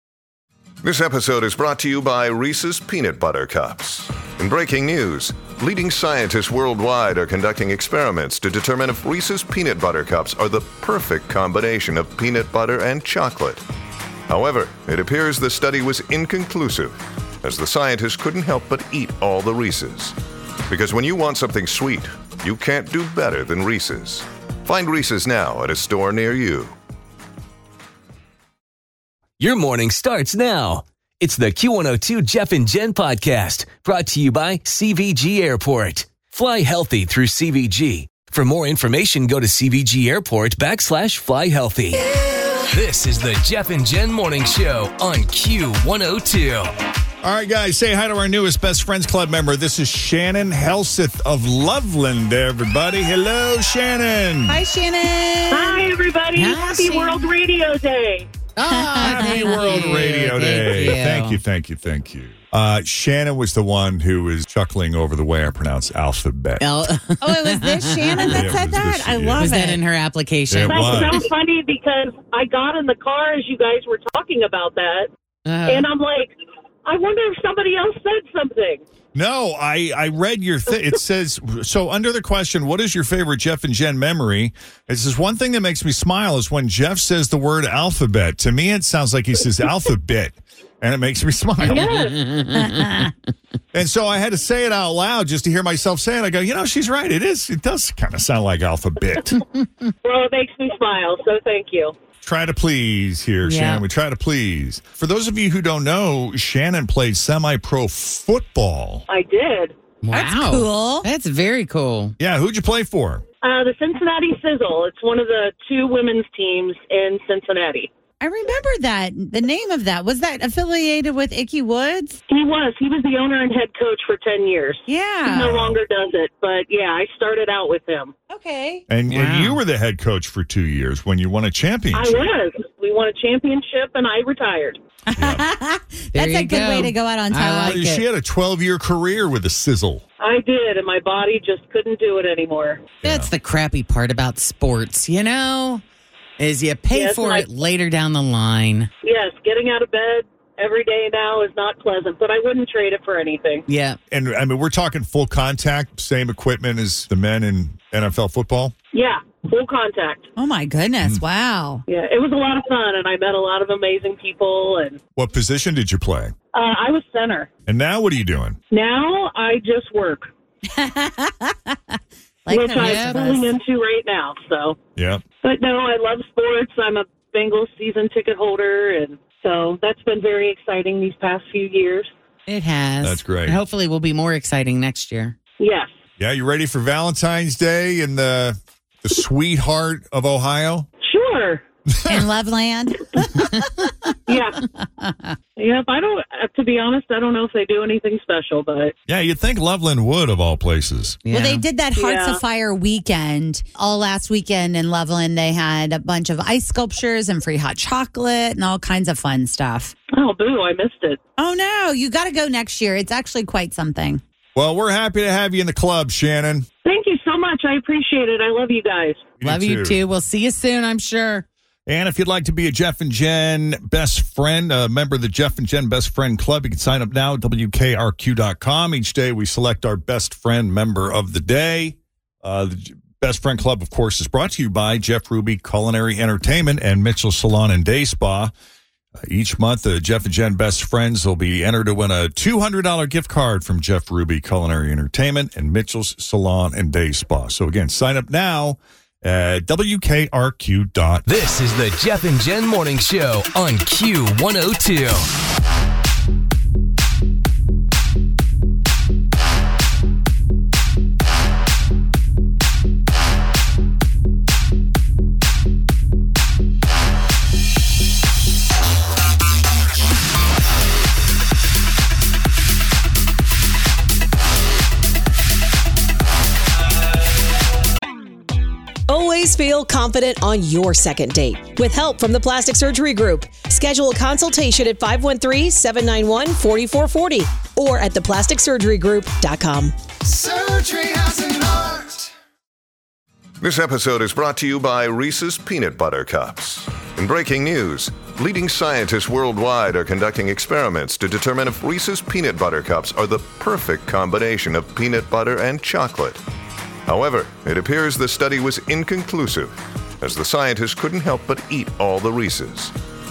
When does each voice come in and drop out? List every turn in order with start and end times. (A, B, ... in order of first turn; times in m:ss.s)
0:00.8-0:13.6 A
0:14.3-0:20.1 A
0:20.7-0:26.7 A
0:29.4-0:42.1 B
0:42.7-0:46.7 B
0:47.2-0:54.6 C
0:54.5-0:55.8 D
0:55.5-0:58.3 E
0:56.3-0:57.3 F
0:58.6-1:01.4 F
0:58.7-0:59.8 D
0:59.0-1:06.6 C
1:06.6-1:08.4 F
1:07.2-1:09.8 D
1:08.2-1:09.5 C
1:09.4-1:11.3 F
1:10.5-1:11.2 C
1:10.6-1:15.1 E
1:15.4-1:15.9 F
1:15.7-1:18.8 E
1:19.1-1:31.9 C
1:31.6-1:33.1 F
1:31.7-1:32.2 E
1:33.7-1:39.4 C
1:40.0-1:42.0 E
1:42.2-1:49.0 C
1:43.4-1:43.8 F
1:49.1-1:49.8 E
1:50.0-1:52.2 F
1:50.1-1:51.1 D
1:52.2-1:53.2 C
1:53.4-1:57.9 E
1:58.2-2:02.2 D
2:02.3-2:08.1 E
2:04.9-2:05.5 D
2:05.3-2:05.8 C
2:08.3-2:08.8 D
2:08.9-2:12.2 C
2:09.1-2:09.6 F
2:11.9-2:14.8 E
2:15.1-2:17.9 D
2:15.1-2:15.4 C
2:16.1-2:18.0 F
2:17.6-2:20.0 C
2:20.2-2:22.8 E
2:23.0-2:23.3 C
2:23.0-2:25.8 F
2:26.4-2:28.9 F
2:26.9-2:27.5 E
2:29.0-2:33.6 E
2:33.7-2:34.0 F
2:34.1-2:38.7 C
2:38.9-2:40.3 E
2:40.4-2:41.8 D
2:41.9-2:45.0 E
2:45.2-2:46.3 C
2:46.5-2:47.5 E
2:47.7-2:48.6 C
2:48.7-2:50.3 E
2:50.7-2:51.8 D
2:52.4-2:53.5 D
2:52.5-2:54.8 E
2:52.8-2:53.2 F
2:55.0-2:55.2 C
2:55.4-3:02.1 E
3:02.5-3:05.4 F
3:03.0-3:03.6 C
3:05.6-3:05.9 E
3:06.2-3:10.9 C
3:11.0-3:11.6 E
3:11.9-3:12.2 C
3:12.1-3:14.1 D
3:14.3-3:14.6 E
3:15.0-3:15.3 D
3:15.6-3:18.9 E
3:19.1-3:21.2 C
3:21.2-3:21.6 F
3:21.3-3:29.9 D
3:21.9-3:22.4 E
3:30.1-3:31.2 E
3:31.4-3:34.2 D
3:34.5-3:36.7 C
3:36.8-3:39.2 E
3:39.4-3:40.0 C
3:39.4-3:41.4 F
3:41.8-3:58.5 C
3:59.2-4:11.3 C
4:11.3-4:15.3 B
4:39.1-4:50.0 G
4:50.5-4:51.5 C
4:53.6-5:06.4 A
5:07.1-5:12.9 A